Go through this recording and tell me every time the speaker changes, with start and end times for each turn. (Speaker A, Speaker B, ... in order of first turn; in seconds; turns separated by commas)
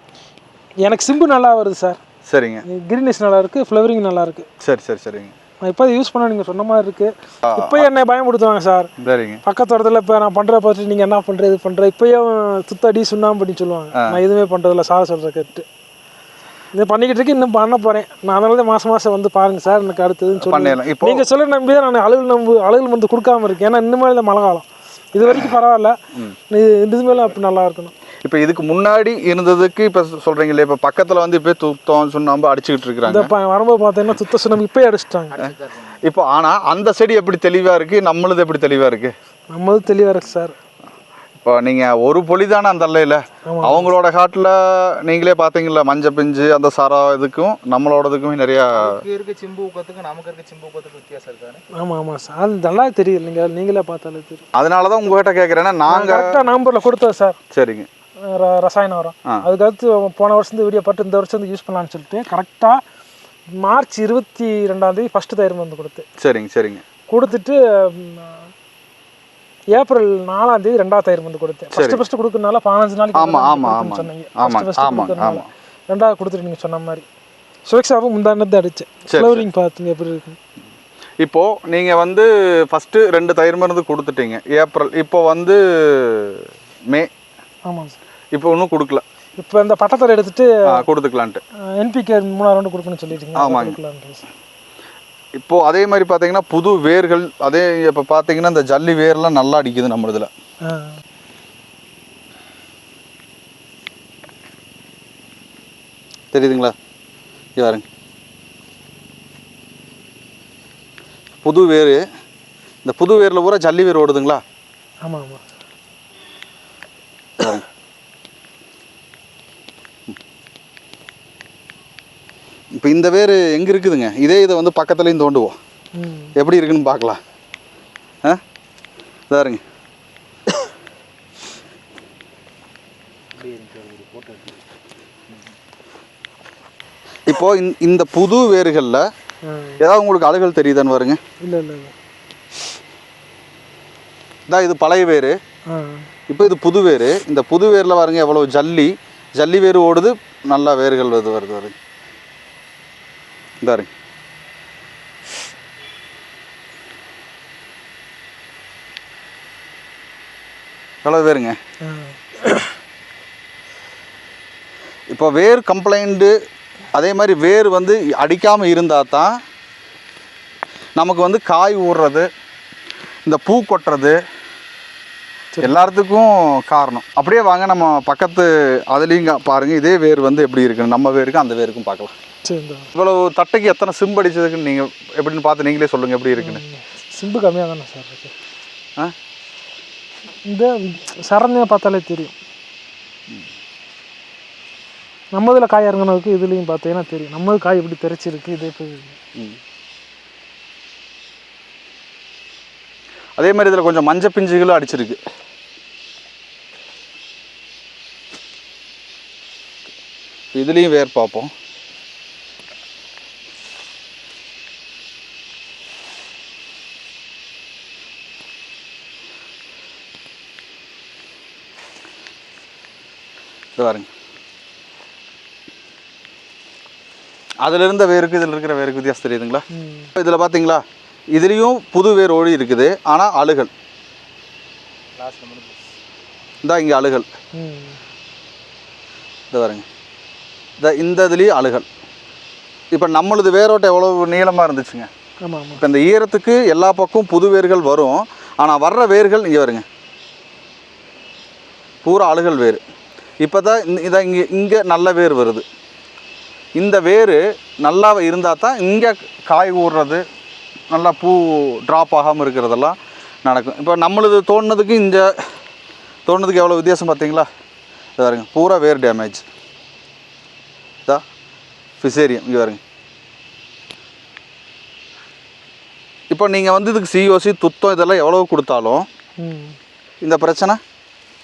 Speaker A: 0.8-2.0, Speaker B: 2.3-2.6, Speaker A: 2.6-4.5, Speaker B: 4.6-5.3, Speaker A: 5.6-8.9, Speaker B: 7.4-7.9, Speaker B: 9.0-9.4, Speaker A: 9.4-15.6, Speaker A: 16.7-25.9, Speaker B: 20.4-21.3, Speaker B: 25.2-25.5, Speaker A: 26.5-27.9, Speaker B: 28.2-33.3, Speaker A: 33.0-35.4, Speaker C: 35.4-36.0, Speaker B: 35.4-39.1, Speaker A: 39.5-40.5, Speaker B: 41.4-49.0, Speaker A: 43.5-43.9, Speaker C: 48.8-51.6, Speaker A: 51.7-54.4, Speaker B: 54.5-56.4, Speaker A: 55.9-57.4, Speaker B: 57.5-57.9, Speaker A: 58.2-62.8, Speaker A: 63.6-66.0, Speaker B: 66.2-66.8, Speaker A: 67.1-68.5, Speaker A: 69.7-77.0, Speaker B: 71.7-72.0, Speaker B: 73.1-75.5, Speaker A: 77.7-80.4, Speaker B: 79.1-79.5, Speaker B: 81.2-87.1, Speaker A: 87.7-88.0, Speaker B: 88.3-89.0, Speaker A: 89.4-90.5, Speaker B: 90.7-91.4, Speaker A: 91.8-94.2, Speaker B: 93.3-93.8, Speaker B: 95.4-100.3, Speaker A: 100.6-101.0, Speaker B: 106.3-106.7, Speaker B: 107.6-107.8, Speaker B: 111.4-112.0, Speaker B: 112.8-114.4, Speaker A: 115.0-115.4, Speaker B: 117.4-117.6, Speaker B: 122.8-125.5, Speaker A: 126.0-126.3, Speaker B: 126.4-127.2, Speaker B: 129.3-129.6, Speaker C: 133.4-134.6, Speaker B: 137.3-139.0, Speaker A: 139.4-139.8, Speaker B: 139.8-141.2, Speaker A: 141.4-141.9, Speaker B: 144.5-145.3, Speaker A: 145.7-146.1, Speaker B: 146.3-151.7, Speaker B: 153.6-153.9, Speaker B: 161.0-161.6, Speaker A: 161.8-162.8, Speaker B: 165.1-166.3, Speaker B: 166.9-169.3, Speaker B: 171.0-172.3, Speaker B: 173.2-174.2, Speaker B: 175.6-182.1, Speaker A: 182.4-182.9, Speaker B: 182.9-186.6, Speaker A: 186.4-188.3, Speaker A: 190.5-192.3, Speaker A: 195.3-199.2, Speaker B: 203.4-205.2, Speaker B: 210.5-211.5, Speaker B: 223.8-224.1, Speaker B: 227.6-229.6, Speaker A: 229.7-230.1, Speaker B: 230.2-230.8, Speaker B: 231.3-233.7, Speaker C: 235.2-235.8, Speaker B: 236.6-237.3, Speaker A: 237.6-238.0, Speaker B: 239.5-239.8, Speaker B: 240.8-241.8, Speaker B: 242.9-245.1, Speaker A: 245.4-245.8, Speaker B: 245.8-249.8, Speaker B: 252.0-252.8, Speaker B: 253.4-255.6, Speaker B: 256.8-260.2, Speaker B: 260.9-265.4, Speaker B: 266.2-267.5, Speaker B: 268.2-269.4, Speaker B: 272.0-272.8, Speaker B: 276.3-279.0, Speaker A: 279.4-279.8, Speaker B: 280.2-280.8